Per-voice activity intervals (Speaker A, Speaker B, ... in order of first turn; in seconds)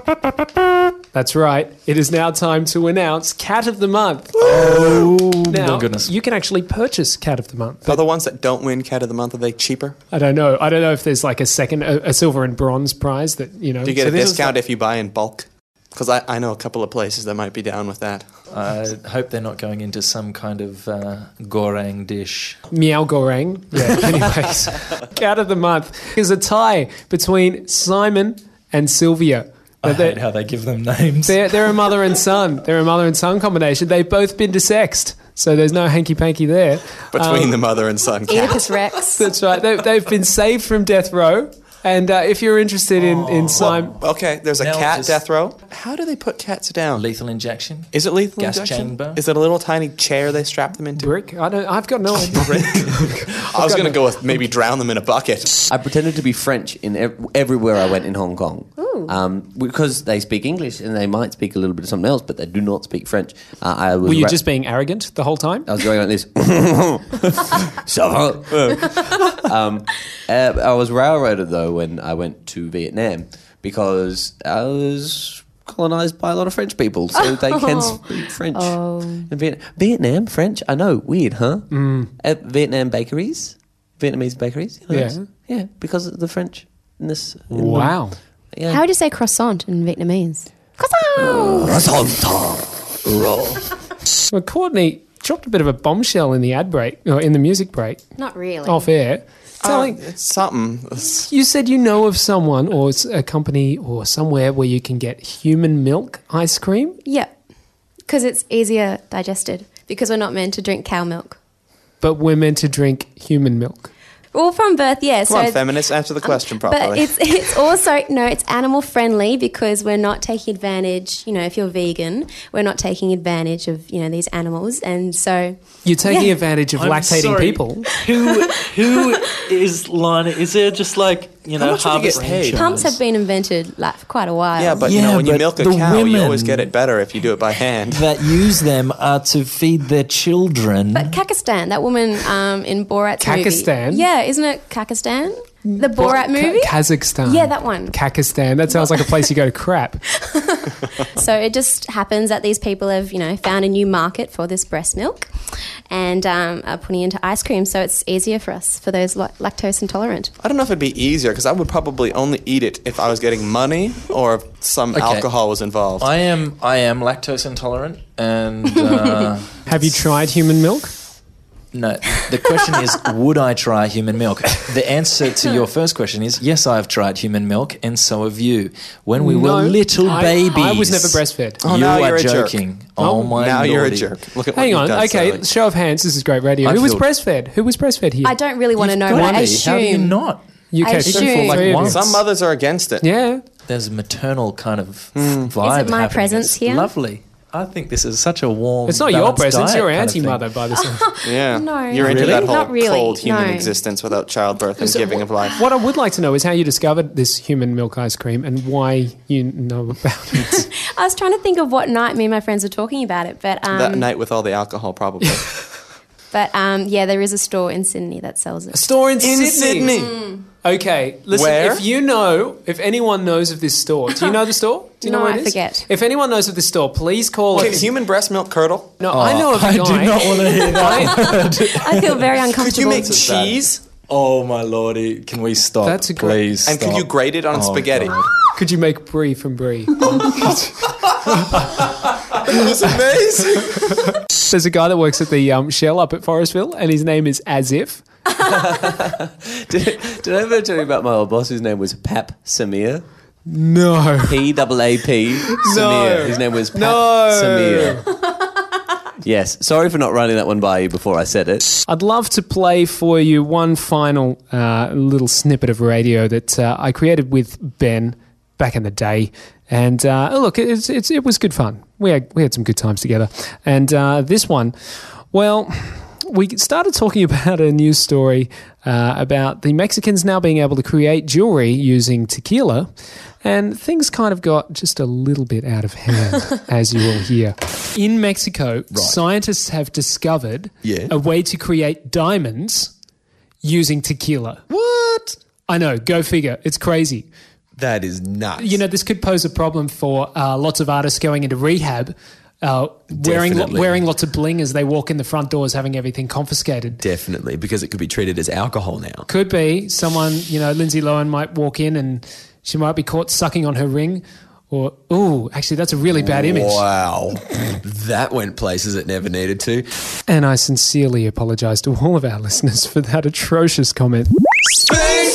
Speaker A: 1.1-8.0, 10.1-14.0, 22.7-30.2, 31.2-37.6, 39.2-43.9, 51.0-54.4, 64.0-65.7, 81.7-82.1, 84.9-85.2, 87.5-88.2, 94.3-98.0, 98.6-100.0, 101.3-107.0, 112.0-113.9, 125.8-127.9, 143.2-144.0, 145.7-150.0, 169.7-170.9, 179.2-181.6, 183.0-183.4, 184.5-188.4, 189.0-189.6, 190.7-192.1, 193.0-193.4, 198.8-201.1, 205.6-210.7, 218.7-219.9, 220.6-227.8, 229.0-231.3, 235.8-236.4, 238.5-240.6, 244.4-248.0, 253.4-254.4, 255.5-258.0, 261.9-282.9, 283.4-292.9, 293.6-294.6, 295.7-297.3, 298.6-307.0, 309.3-316.8, 320.3-324.3
Speaker B: 4.4-6.1, 14.0-14.5, 18.5-22.6, 29.8-31.7, 43.0-45.2, 46.9-49.2, 126.7-133.0, 134.8-136.7, 137.8-141.2, 164.9-165.3, 166.0-169.9, 171.7-184.2, 186.6-187.1, 188.8-190.4, 191.0-192.2, 193.7-200.5, 202.0-202.6, 229.1-232.3, 232.9-238.3, 242.3-244.0
Speaker C: 4.5-5.0, 7.8-9.9, 13.8-18.3, 37.1-38.7, 44.0-47.0, 47.9-51.1, 52.3-55.6, 99.6-101.3, 115.3-117.1, 131.8-132.5, 134.6-138.1, 160.4-166.1, 181.6-182.6, 183.4-185.4, 191.9-193.0, 195.1-195.5, 201.2-205.6, 213.7-215.5, 219.2-220.1, 221.3-221.8, 227.5-229.0, 232.6-233.8, 236.7-238.2
Speaker D: 38.3-39.3, 58.8-59.1, 77.2-78.0, 78.5-79.3, 88.7-91.8, 98.2-98.9, 107.0-107.3, 108.1-111.3, 114.3-126.4, 132.4-134.9, 140.9-147.9, 148.7-149.1, 150.2-160.3, 188.2-190.2, 190.8-191.9, 195.6-196.9, 200.8-203.7, 204.8-205.3, 210.5-214.1, 216.3-218.8, 219.9-220.4, 225.0-225.9, 230.7-233.2
Speaker E: 55.7-64.4, 65.7-88.0, 88.5-88.8, 91.2-93.7, 248.4-253.0, 254.2-258.0, 259.2-261.8
Speaker F: 290.8-291.1, 294.7-295.3, 297.8-298.7, 303.1-303.8, 307.0-309.2, 316.1-319.8